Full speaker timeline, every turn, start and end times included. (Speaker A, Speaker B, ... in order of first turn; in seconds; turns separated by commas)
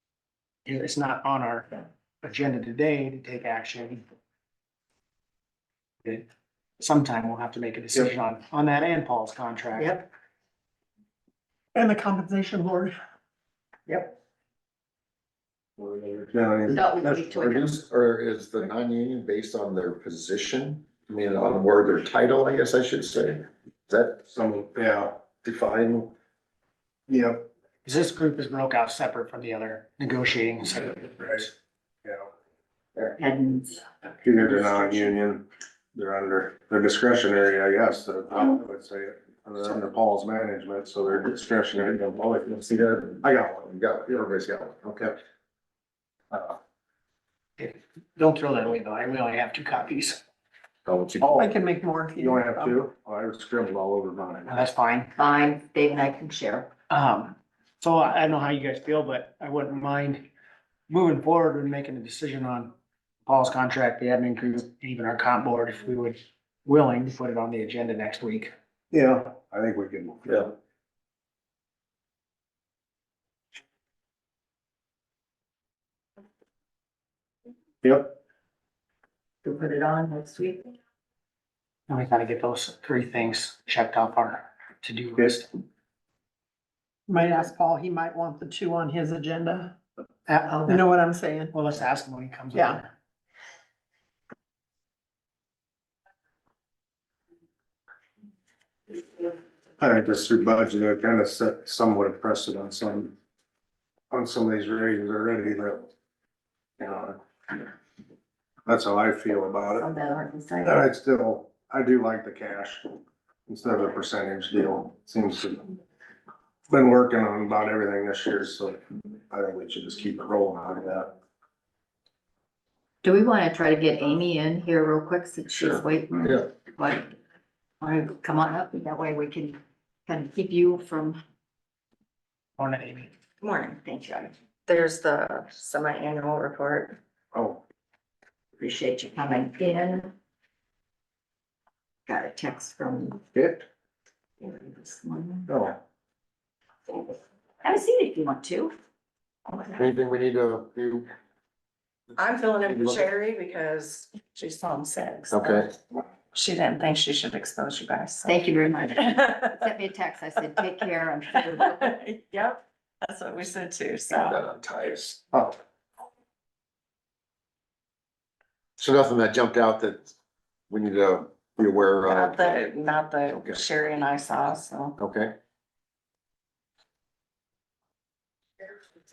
Speaker A: 0.7-4.0, Speaker A: 6.8-10.0, Speaker B: 9.8-10.1, Speaker C: 11.8-13.0, Speaker B: 13.9-14.1, Speaker D: 15.8-17.4, Speaker B: 16.7-17.8, Speaker E: 17.4-24.2, Speaker D: 24.3-25.8, Speaker E: 25.7-26.1, Speaker D: 27.1-27.5, Speaker A: 27.9-31.5, Speaker B: 33.2-35.2, Speaker D: 34.2-44.3, Speaker E: 43.7-44.9, Speaker D: 44.8-45.1, Speaker A: 47.6-50.2, Speaker E: 50.9-51.4, Speaker D: 51.2-51.5, Speaker C: 51.4-52.8, Speaker D: 52.2-54.6, Speaker A: 54.5-55.1, Speaker B: 55.2-56.7, Speaker A: 56.9-60.3, Speaker A: 60.9-62.7, Speaker A: 63.3-68.5, Speaker D: 68.9-70.5, Speaker D: 77.8-78.1, Speaker B: 79.4-80.7, Speaker A: 81.9-85.5, Speaker C: 87.1-89.8, Speaker A: 90.3-90.9, Speaker C: 90.8-91.5, Speaker A: 91.5-92.9, Speaker D: 99.8-103.1, Speaker D: 104.1-105.9, Speaker D: 106.8-107.2, Speaker D: 108.7-109.9, Speaker B: 109.7-110.8, Speaker D: 110.6-112.9, Speaker D: 113.5-115.7, Speaker D: 116.7-121.1, Speaker B: 123.0-127.1, Speaker B: 127.8-131.2, Speaker A: 132.6-133.1, Speaker F: 133.4-133.8, Speaker B: 133.8-134.3, Speaker F: 134.7-137.0, Speaker D: 137.3-137.6, Speaker B: 138.6-140.1, Speaker B: 142.1-143.2, Speaker D: 143.3-143.6, Speaker B: 144.4-145.5, Speaker D: 145.5-145.8, Speaker B: 147.6-148.7, Speaker F: 149.5-149.8, Speaker E: 149.8-151.1, Speaker F: 152.2-155.7, Speaker E: 152.6-153.1, Speaker E: 155.3-155.7, Speaker F: 156.3-158.4, Speaker B: 158.2-162.0, Speaker F: 159.0-159.7, Speaker F: 161.3-164.4, Speaker E: 164.1-165.4, Speaker E: 168.8-170.1, Speaker E: 170.7-172.5, Speaker F: 172.0-175.0, Speaker E: 175.0-175.4